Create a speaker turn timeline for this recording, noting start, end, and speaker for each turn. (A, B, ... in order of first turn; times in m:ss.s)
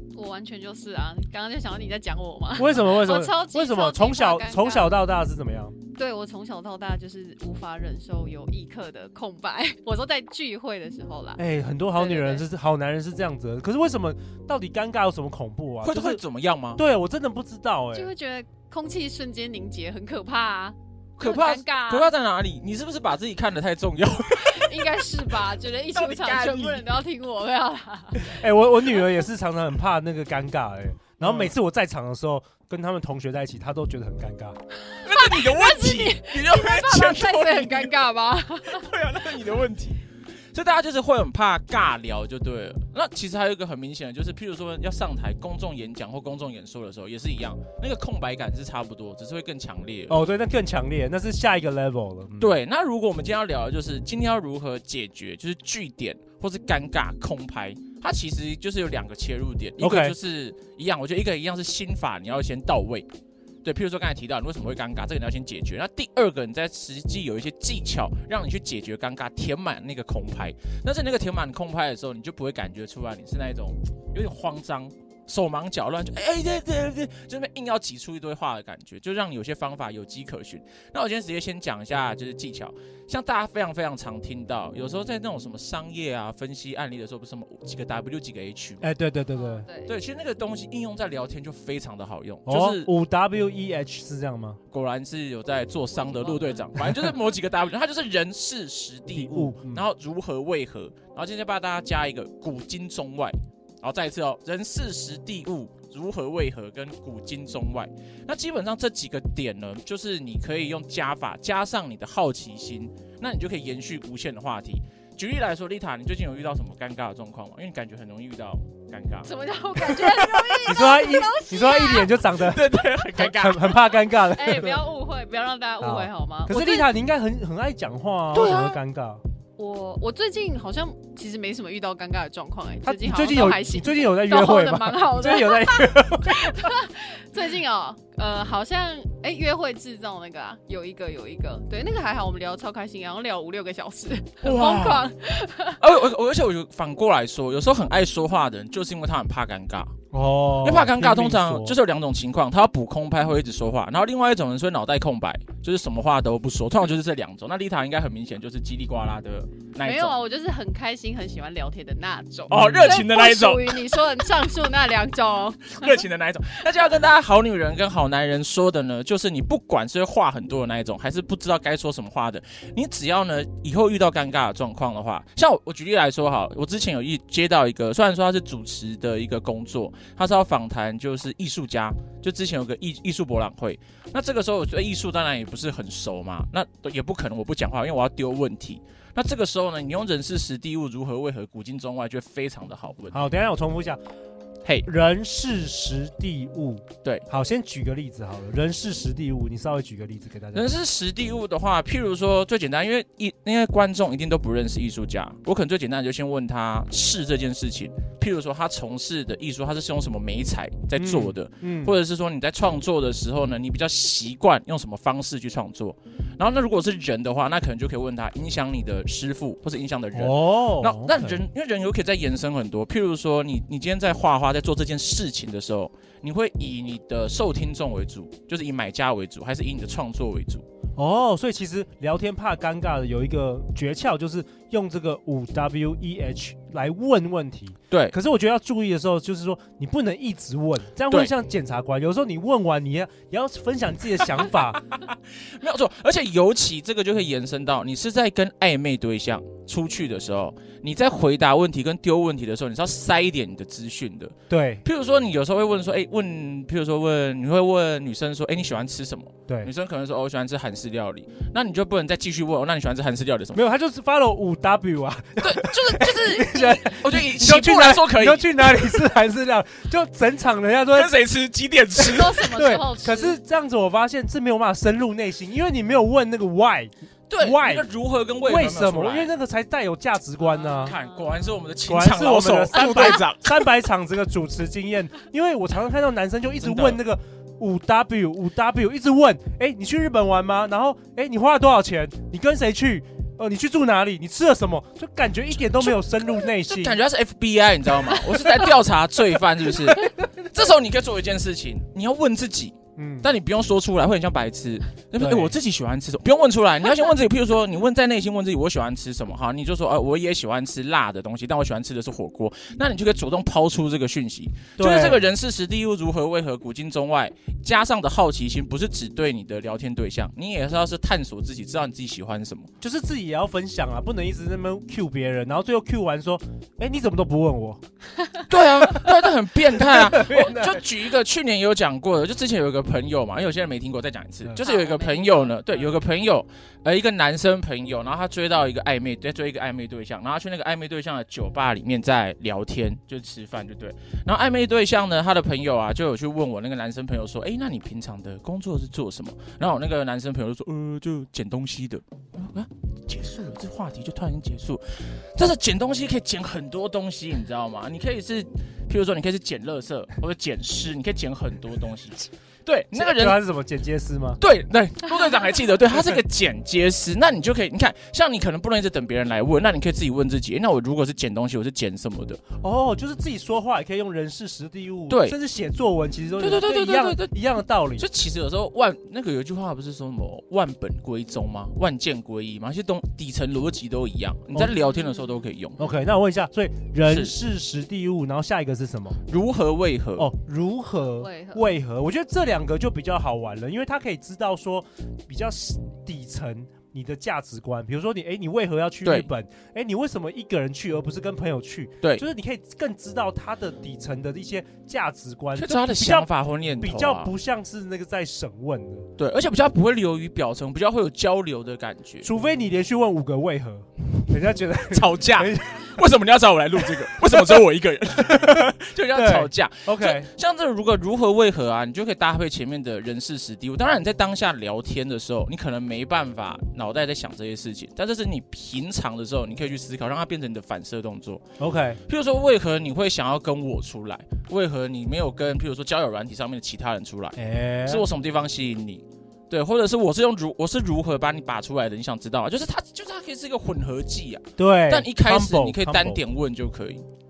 0:00.1-0:05.0 A
0:02.6-0:05.8 B
0:05.9-0:11.4 A
0:11.4-0:16.2 B
0:11.9-0:12.4 A
0:15.8-0:16.8 C
0:16.8-0:18.1 B
0:17.9-0:22.1 A
0:21.2-0:26.8 C
0:24.4-0:28.3 A
0:28.2-0:34.6 B
0:31.2-0:31.5 C
0:34.9-0:38.9 A
0:35.0-0:38.1 C
0:38.6-0:50.2 C
0:50.1-0:52.5 B
0:52.4-1:03.1 C
0:59.8-1:00.2 B
1:03.6-1:28.9 C
1:28.8-1:29.7 B
1:29.3-1:29.9 A
1:29.8-1:32.9 C
1:32.5-1:34.6 B
1:34.7-2:00.8 C
1:35.9-1:36.6 A
1:39.1-1:39.9 B
1:59.2-2:02.1 A
2:00.7-2:04.8 B
2:02.2-2:04.0 C
2:04.3-2:06.9 A
2:05.8-2:09.2 B
2:09.6-2:25.8 A
2:12.8-2:16.6 B
2:24.4-2:25.1 C
2:25.8-2:29.9 C
2:30.1-2:31.8 B
2:30.6-2:40.2 C
2:39.8-2:46.0 A
2:42.5-2:43.0 B
2:42.5-2:43.8 C
2:45.8-3:13.2 C
3:13.1-3:14.0 B
3:14.8-3:20.7 B
3:20.5-3:50.6 C
3:31.0-3:32.0 B
3:40.1-3:41.4 B
3:51.0-4:04.8 B
3:57.9-3:58.2 C
4:05.0-4:23.6 C
4:14.5-4:14.8 B
4:23.5-4:31.2 B
4:25.4-4:29.0 C
4:30.9-4:32.6 C
4:32.0-4:37.9 B
4:32.1-4:33.4 A
4:37.3-4:39.3 C
4:38.4-4:41.0 B
4:40.5-4:41.6 A
4:40.7-4:43.7 C
4:41.9-4:57.0 B
4:46.6-4:47.0 C
4:55.6-5:22.7 C
5:03.0-5:03.3 B
5:05.2-5:05.6 B
5:14.8-5:15.3 B
5:22.8-5:27.8 B
5:28.5-6:03.4 C
5:29.7-5:30.8 B
5:34.6-5:35.9 A
6:02.9-6:04.4 B
6:04.4-6:12.4 C
6:12.6-6:18.1 B
6:15.1-6:15.4 C
6:16.4-6:25.8 C
6:25.8-6:29.2 B
6:27.1-6:27.4 C
6:29.3-6:30.3 C
6:30.2-6:49.1 B
6:31.0-6:31.8 A
6:39.0-6:39.3 C
6:45.6-6:47.3 C
6:49.2-6:52.3 C
6:52.2-6:55.9 B
6:54.9-7:11.4 C
6:56.9-6:57.6 B
6:58.2-7:00.3 B
7:11.6-7:12.0 B
7:12.1-7:27.0 C
7:17.4-7:18.0 B
7:24.6-7:26.2 B